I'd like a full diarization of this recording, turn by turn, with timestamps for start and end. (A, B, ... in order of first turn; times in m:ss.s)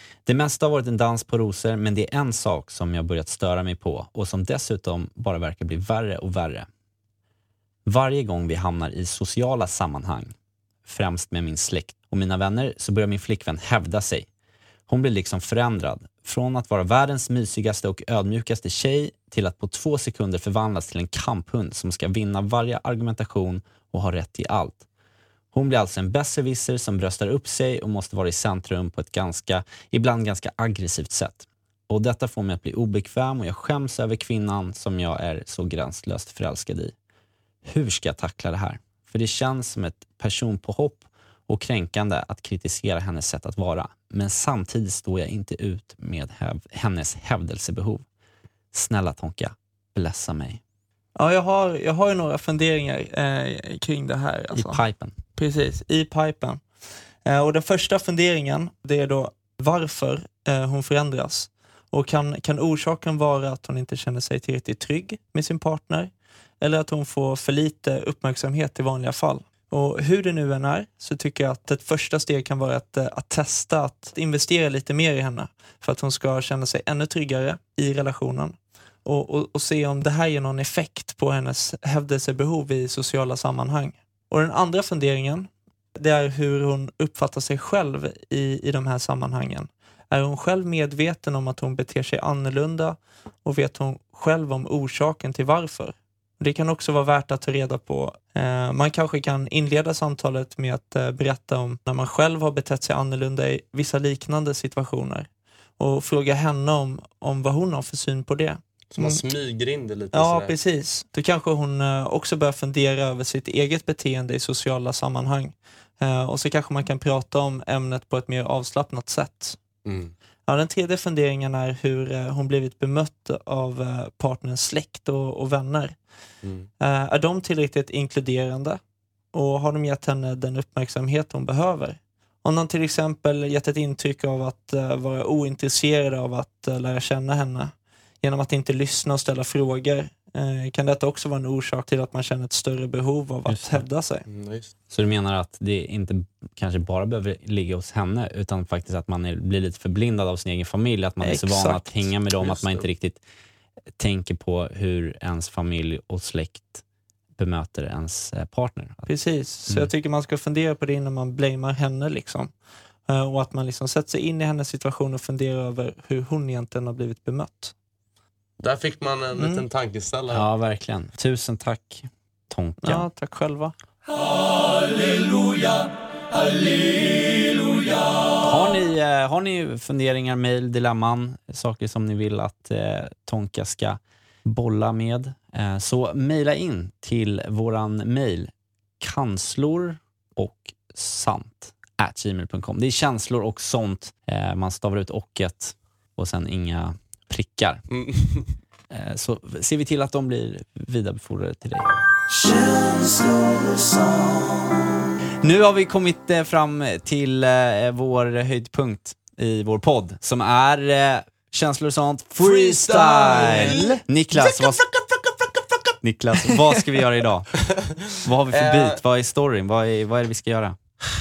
0:00.3-0:06.7 A
0:07.9-0:10.3 A
0:10.9-0:14.3 A
0:14.9-0:24.8 A
0:25.5-0:36.9 A
0:37.6-0:48.0 A
0:48.7-0:50.6 A
0:51.2-0:54.8 B
0:54.5-0:55.2 A
0:55.4-0:56.6 B
0:57.2-1:45.3 B
1:45.8-1:49.2 B
1:49.0-1:50.6 C
1:50.1-1:59.6 B
1:59.8-2:00.1 C
2:00.5-2:06.0 B
2:06.8-2:08.8 B
2:09.3-2:24.3 B
2:23.5-2:23.8 A
2:24.3-2:24.7 C
2:24.9-2:33.2 A
2:31.2-2:32.1 B
2:32.4-2:32.9 C
2:34.0-2:36.8 A
2:37.4-2:39.1 A
2:39.1-2:42.5 B
2:43.1-2:47.7 B
2:48.6-2:50.5 C
2:49.4-2:49.6 B
2:50.3-2:53.1 A
2:52.8-2:53.8 B
2:58.4-3:17.8 A
3:17.9-3:18.5 C
3:18.9-3:21.9 A
3:25.4-3:34.8 A
3:32.4-3:35.9 C
3:36.0-3:37.5 A
3:38.2-3:40.8 A
3:38.5-3:39.0 C